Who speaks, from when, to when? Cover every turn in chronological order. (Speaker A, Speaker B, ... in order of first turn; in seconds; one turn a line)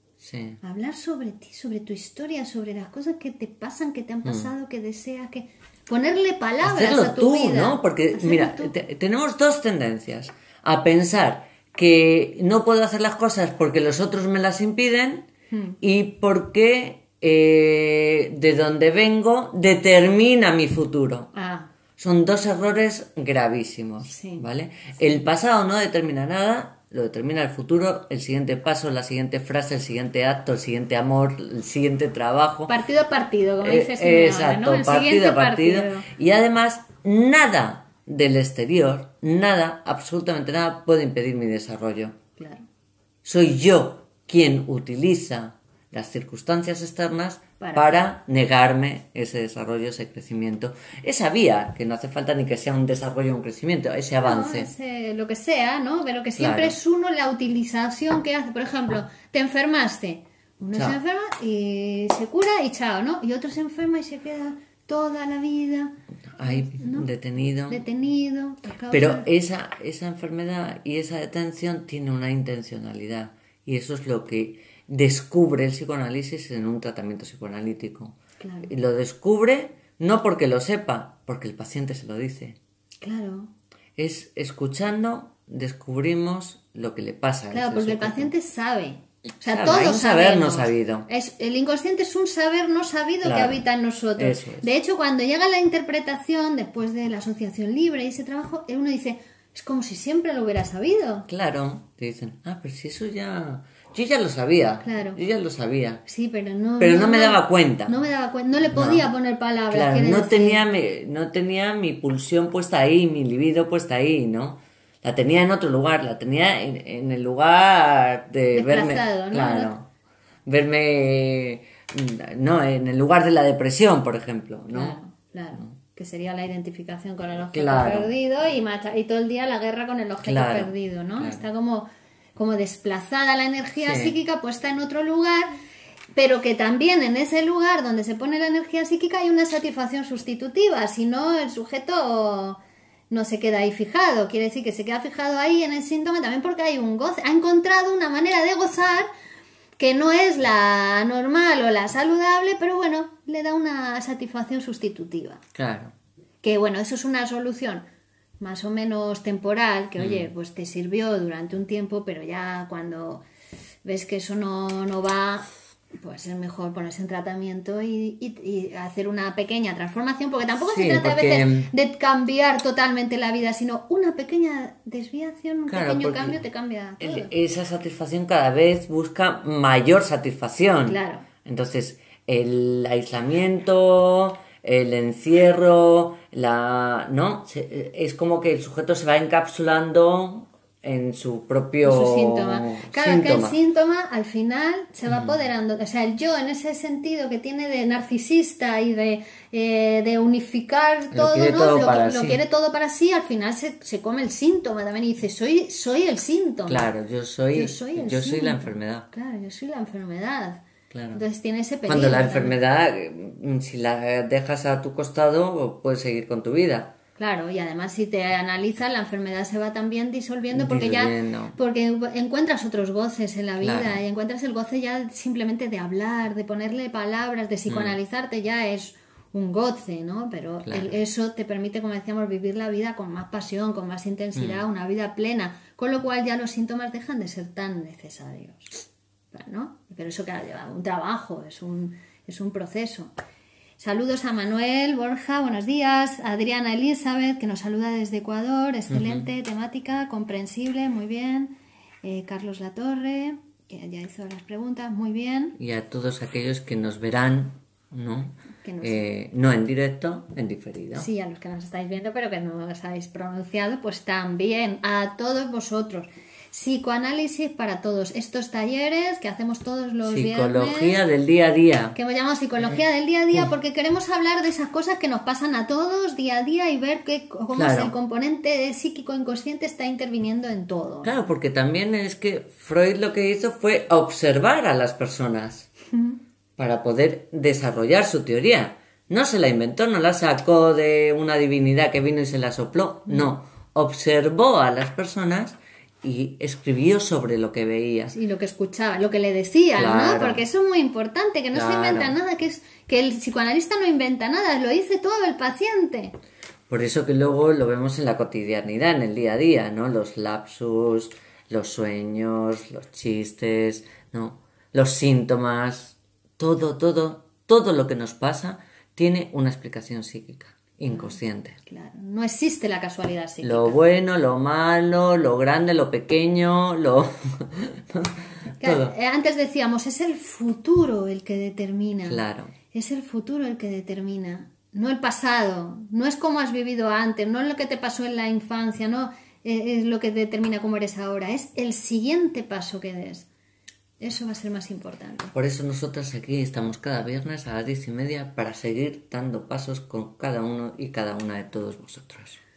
Speaker A: 0.2-0.6
Speaker B: 0.6-8.8
Speaker A: 4.2-4.5
Speaker A: 6.6-15.3
Speaker B: 15.5-15.8
Speaker A: 15.8-21.3
Speaker B: 21.3-21.7
Speaker A: 22.0-32.7
Speaker B: 24.0-24.5
Speaker B: 32.7-36.1
Speaker A: 33.6-42.1
Speaker B: 42.4-42.6
Speaker A: 43.2-54.7
Speaker B: 47.6-47.9
Speaker B: 54.2-67.1
Speaker A: 56.4-56.8
Speaker A: 66.3-67.8
Speaker B: 67.7-69.3
Speaker A: 68.9-82.6
Speaker B: 78.4-78.7
Speaker B: 83.0-83.5
Speaker A: 84.0-88.3
Speaker B: 87.5-101.3
Speaker A: 89.5-91.1
Speaker A: 93.2-93.6
Speaker A: 94.2-94.7
Speaker A: 101.3-106.0
Speaker B: 104.8-105.2
Speaker B: 106.0-110.6
Speaker A: 106.8-108.0
Speaker A: 108.7-109.1
Speaker A: 109.7-119.9
Speaker B: 118.5-119.7
Speaker A: 120.5-125.0
Speaker B: 124.7-135.5
Speaker A: 127.5-128.1
Speaker A: 130.2-131.4
Speaker A: 133.8-134.2
Speaker B: 136.1-142.6
Speaker B: 143.1-149.1
Speaker B: 149.8-155.4
Speaker A: 155.5-155.9
Speaker B: 156.4-157.8
Speaker B: 158.4-163.2
Speaker A: 160.0-160.3
Speaker B: 163.8-177.3
Speaker A: 170.7-171.7
Speaker A: 175.7-176.4
Speaker A: 177.0-193.6
Speaker B: 180.8-181.2
Speaker B: 191.8-206.9
Speaker A: 195.1-195.4
Speaker A: 201.1-202.4
Speaker A: 206.7-209.1
Speaker B: 207.5-210.6
Speaker A: 210.9-211.2
Speaker B: 211.1-212.5
Speaker A: 211.8-216.9
Speaker B: 217.2-238.8
Speaker A: 220.5-221.6
Speaker A: 223.6-224.0
Speaker A: 227.7-228.0
Speaker A: 230.6-230.9
Speaker A: 234.3-234.6
Speaker B: 239.3-243.1
Speaker B: 243.8-255.6
Speaker A: 248.9-249.3
Speaker A: 255.6-261.1
Speaker B: 258.6-259.0
Speaker B: 260.9-270.9
Speaker A: 270.0-272.0
Speaker B: 271.9-281.2
Speaker A: 277.5-277.9
Speaker A: 281.0-285.7
Speaker A: 286.6-298.1
Speaker B: 293.1-293.3
Speaker B: 298.1-306.1
Speaker A: 299.8-300.4
Speaker A: 301.5-302.1
Speaker A: 306.7-321.6
Speaker B: 320.9-323.8
Speaker A: 323.4-328.9
Speaker B: 328.6-332.2
Speaker A: 332.0-332.5
Speaker B: 332.7-343.3
Speaker B: 344.0-345.3
Speaker A: 345.3-352.4